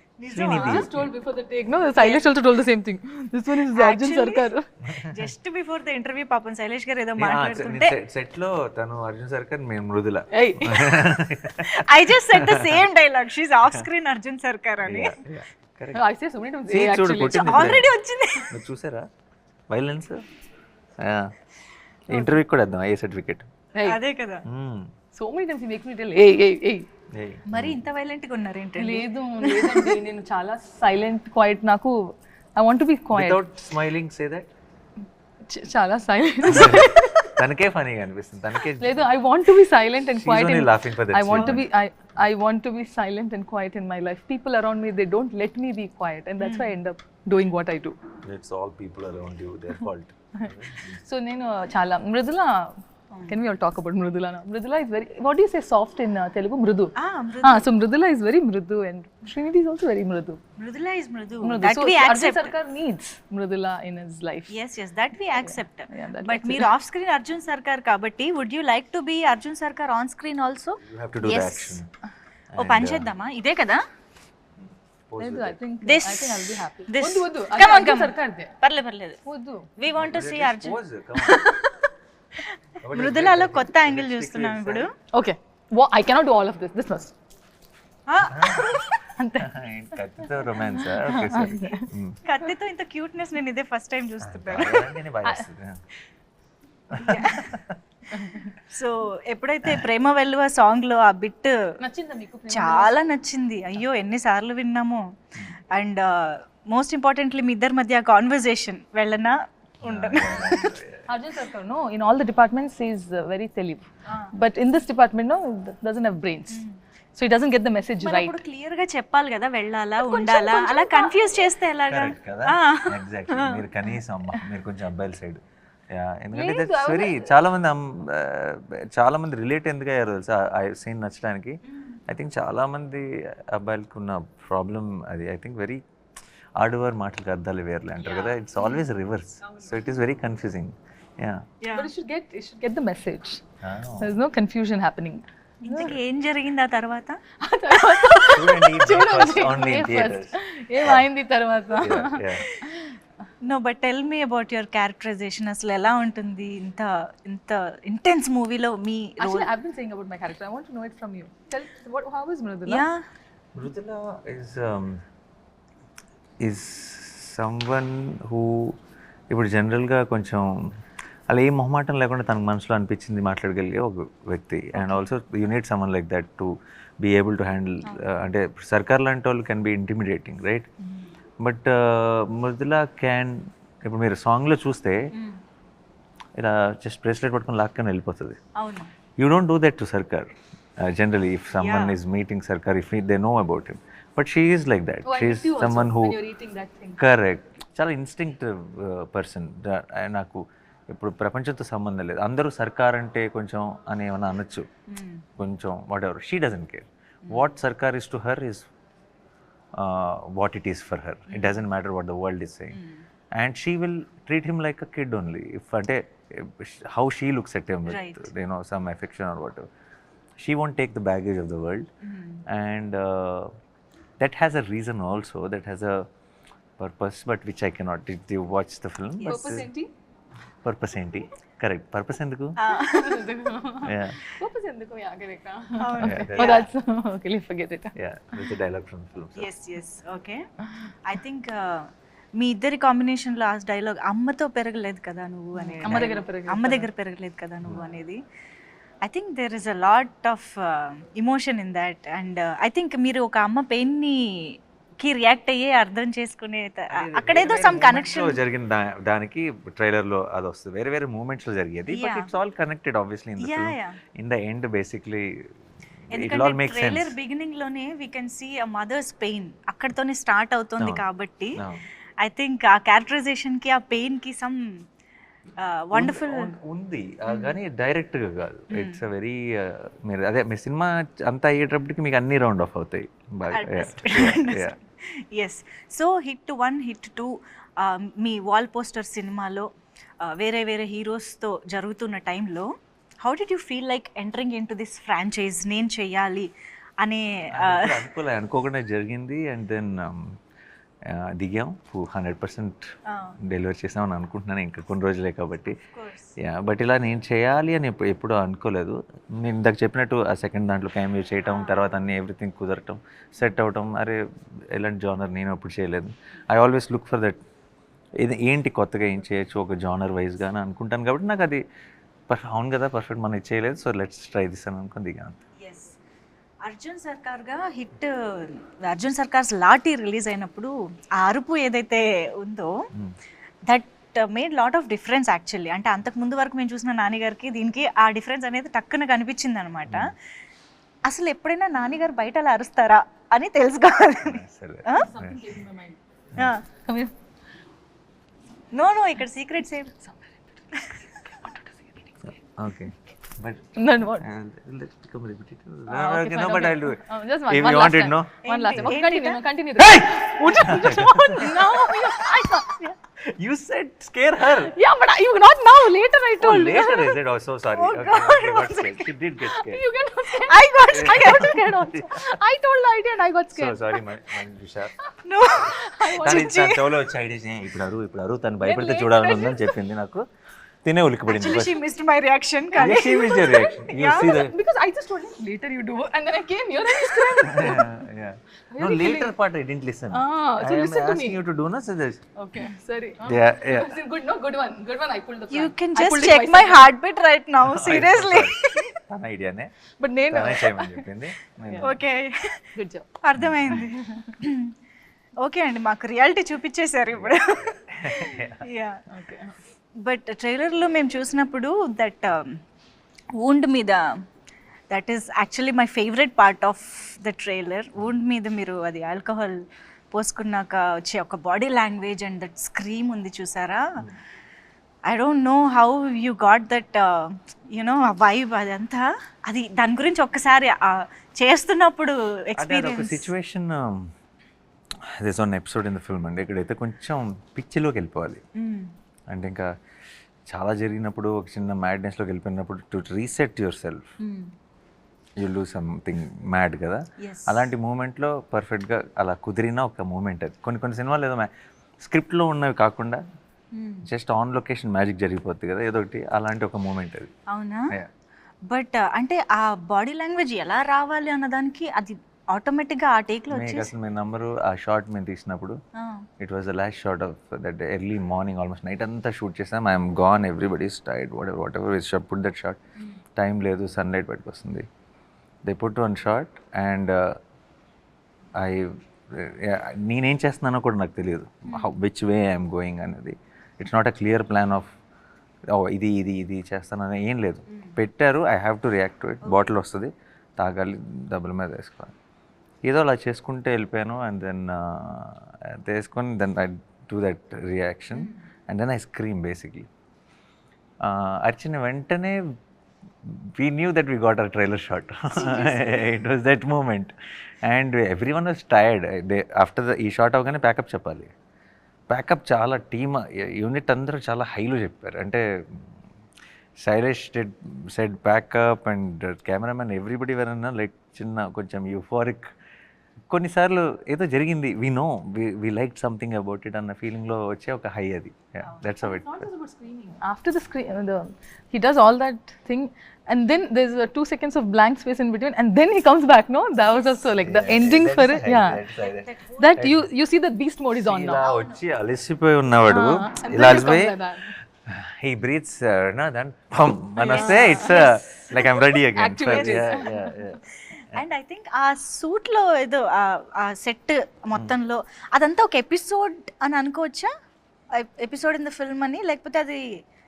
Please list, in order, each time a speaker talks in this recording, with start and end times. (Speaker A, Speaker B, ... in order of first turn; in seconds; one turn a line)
Speaker A: 0.2-0.8
Speaker B: 0.3-1.1
Speaker C: 0.4-4.7
Speaker A: 2.0-2.2
Speaker A: 3.7-8.0
Speaker B: 4.8-5.3
Speaker B: 7.2-12.9
Speaker C: 10.3-11.1
Speaker A: 11.6-15.2
Speaker B: 14.8-16.0
Speaker C: 15.9-17.8
Speaker B: 16.7-19.1
Speaker A: 17.5-18.5
Speaker B: 19.7-20.2
Speaker B: 21.0-21.3
Speaker B: 22.1-23.5
Speaker A: 23.8-24.4
Speaker B: 24.4-24.9
Speaker C: 25.1-26.9
Speaker B: 27.1-27.8
Speaker A: 27.5-29.9
Speaker C: 28.8-33.4
Speaker B: 33.1-34.5
Speaker C: 35.5-37.4
Speaker B: 36.4-39.0
Speaker C: 38.8-48.0
Speaker B: 40.2-41.6
Speaker A: 41.3-41.6
Speaker A: 46.4-46.7
Speaker B: 48.2-51.0
Speaker C: 51.0-60.4
Speaker A: 57.0-57.6
Speaker A: 60.6-62.5
Speaker C: 61.4-64.5
Speaker A: 64.5-71.8
Speaker C: 65.3-66.7
Speaker B: 70.8-71.9
Speaker B: 72.5-73.1
Speaker A: 72.6-73.8
Speaker B: 74.6-75.6
Speaker C: 75.2-78.5
Speaker A: 75.8-79.2
Speaker C: 79.2-79.7
Speaker A: 79.8-81.9
Speaker B: 80.0-81.5
Speaker A: 82.4-84.9
Speaker B: 82.8-84.9
Speaker C: 85.1-87.1
Speaker A: 88.1-88.9
Speaker B: 88.3-88.8
Speaker C: 88.6-89.5
Speaker B: 89.4-92.2
Speaker C: 90.2-91.9
Speaker A: 92.2-94.9
Speaker B: 94.2-95.8
Speaker B: 96.9-97.8
Speaker A: 96.9-97.5
Speaker C: 98.1-98.5
Speaker A: 98.6-101.7
Speaker C: 101.8-103.1
Speaker A: 102.5-110.8
Speaker B: 109.8-111.1
Speaker C: 111.1-116.6
Speaker A: 114.1-114.3
Speaker A: 116.5-116.8
Speaker C: 117.2-118.4
Speaker A: 118.0-124.0
Speaker C: 120.0-121.5
Speaker B: 121.9-135.8
Speaker C: 126.3-127.3
Speaker B: 136.6-141.5
Speaker A: 138.0-138.8
Speaker A: 139.4-139.7
Speaker A: 141.6-141.9
Speaker C: 141.7-143.4
Speaker B: 143.6-144.1
Speaker C: 144.0-145.9
Speaker A: 145.6-147.2
Speaker C: 147.4-153.0
Speaker A: 147.8-148.4
Speaker B: 148.3-151.1
Speaker B: 151.8-152.4
Speaker A: 153.4-159.5
Speaker C: 159.2-162.8
Speaker A: 162.7-163.0
Speaker B: 163.5-165.0
Speaker B: 166.4-168.8
Speaker B: 169.3-170.7
Speaker B: 171.3-180.7
Speaker A: 174.7-175.1
Speaker B: 181.4-185.1
Speaker A: 185.1-185.4
Speaker B: 186.4-188.4
Speaker A: 188.6-188.9
Speaker B: 189.2-196.2
Speaker A: 191.5-192.0
Speaker C: 195.0-197.0
Speaker B: 197.0-204.7
Speaker A: 204.9-205.2
Speaker B: 205.4-208.7
Speaker B: 209.7-212.8
Speaker A: 211.3-211.6
Speaker A: 212.7-213.0
Speaker B: 213.3-219.7
Speaker A: 217.9-218.3
Speaker B: 220.4-221.9
Speaker A: 222.0-222.4
Speaker B: 222.4-223.5
Speaker B: 224.2-226.1
Speaker B: 226.8-229.7
Speaker A: 229.2-229.7
Speaker C: 229.3-229.9
Speaker B: 230.6-232.6
Speaker A: 232.6-233.3
Speaker C: 232.7-237.9
Speaker B: 233.8-234.3
Speaker A: 235.8-236.7
Speaker B: 236.0-236.7
Speaker B: 237.9-239.5
Speaker A: 239.3-240.4
Speaker A: 241.0-248.2
Speaker C: 245.6-246.9
Speaker B: 245.8-246.2
Speaker A: 249.0-258.4
Speaker B: 256.9-265.5
Speaker A: 261.9-262.3
Speaker A: 263.4-264.0
Speaker A: 266.1-271.6
Speaker B: 266.1-267.1
Speaker B: 270.8-271.0
Speaker B: 271.6-271.8
Speaker A: 272.2-274.8
Speaker A: 275.6-276.5
Speaker B: 275.9-284.8
Speaker A: 277.3-277.6
Speaker A: 278.7-279.0
Speaker A: 283.4-289.7
Speaker A: 290.2-296.5
Speaker A: 297.0-298.0
Speaker B: 297.5-300.4
Speaker B: 301.0-305.8
Speaker A: 303.1-303.4
Speaker A: 305.8-306.3
Speaker B: 306.4-317.4
Speaker A: 311.5-311.9
Speaker B: 318.2-321.6
Speaker B: 322.3-325.4
Speaker A: 325.6-326.0
Speaker A: 326.6-332.9
Speaker A: 333.7-340.1
Speaker B: 339.9-340.1
Speaker A: 341.1-345.1
Speaker B: 344.2-345.6
Speaker C: 344.9-346.0
Speaker A: 346.4-346.6
Speaker C: 346.7-347.1
Speaker A: 348.7-349.9
Speaker C: 349.9-352.1
Speaker A: 350.7-351.0
Speaker B: 352.4-358.9
Speaker C: 353.8-354.2
Speaker C: 355.9-362.9
Speaker A: 358.4-359.4
Speaker B: 359.8-361.9
Speaker A: 361.4-362.9
Speaker B: 363.2-364.7
Speaker C: 364.6-367.2
Speaker B: 366.4-369.8
Speaker A: 367.7-369.1
Speaker C: 369.4-374.2
Speaker A: 370.3-371.8
Speaker B: 370.9-372.4
Speaker B: 373.5-374.9
Speaker A: 375.2-376.8
Speaker C: 375.6-376.6
Speaker B: 376.2-380.3
Speaker C: 378.6-379.8
Speaker B: 380.8-381.8
Speaker A: 381.3-384.4
Speaker B: 382.8-384.5
Speaker C: 382.8-388.1
Speaker B: 387.4-392.2
Speaker C: 388.7-389.3
Speaker C: 390.1-391.4
Speaker C: 392.4-396.9
Speaker B: 393.2-394.0
Speaker A: 395.5-398.9
Speaker B: 397.6-399.8
Speaker C: 400.0-401.9
Speaker B: 400.3-402.0
Speaker A: 401.8-402.6
Speaker C: 402.7-403.1
Speaker A: 403.2-404.7
Speaker B: 403.4-403.8
Speaker C: 403.7-404.4
Speaker A: 405.4-409.0
Speaker B: 407.1-408.6
Speaker C: 409.1-409.5
Speaker A: 410.0-412.6
Speaker A: 413.3-414.2
Speaker A: 414.9-424.1
Speaker A: 425.1-433.3
Speaker B: 432.6-434.1
Speaker B: 435.0-438.4
Speaker A: 438.6-438.9
Speaker B: 439.3-439.7
Speaker B: 440.5-444.1
Speaker A: 444.2-444.5
Speaker B: 445.4-451.5
Speaker A: 447.2-447.6
Speaker B: 452.0-453.2
Speaker A: 453.7-454.1
Speaker B: 454.1-457.3
Speaker A: 457.5-457.9
Speaker A: 458.7-463.9
Speaker B: 463.5-465.8
Speaker A: 465.9-466.3
Speaker B: 466.4-472.8
Speaker B: 473.4-474.9
Speaker B: 475.6-477.4
Speaker B: 478.6-484.9
Speaker A: 481.7-481.9
Speaker B: 485.7-492.1
Speaker A: 487.7-488.0
Speaker A: 489.4-489.7
Speaker B: 492.8-499.9
Speaker A: 498.1-498.4
Speaker B: 501.0-502.5
Speaker B: 503.2-511.3
Speaker A: 505.3-506.1
Speaker B: 512.1-516.0
Speaker B: 516.8-522.5
Speaker B: 523.3-529.5
Speaker C: 528.9-538.8
Speaker A: 536.8-537.5
Speaker B: 537.4-540.0
Speaker A: 538.9-539.9
Speaker C: 539.6-541.5
Speaker B: 541.0-544.1
Speaker A: 541.3-541.8
Speaker C: 542.9-544.5
Speaker B: 544.8-551.2
Speaker A: 547.2-548.4
Speaker C: 547.2-550.4
Speaker A: 549.4-550.1
Speaker A: 551.0-557.3
Speaker A: 557.9-559.9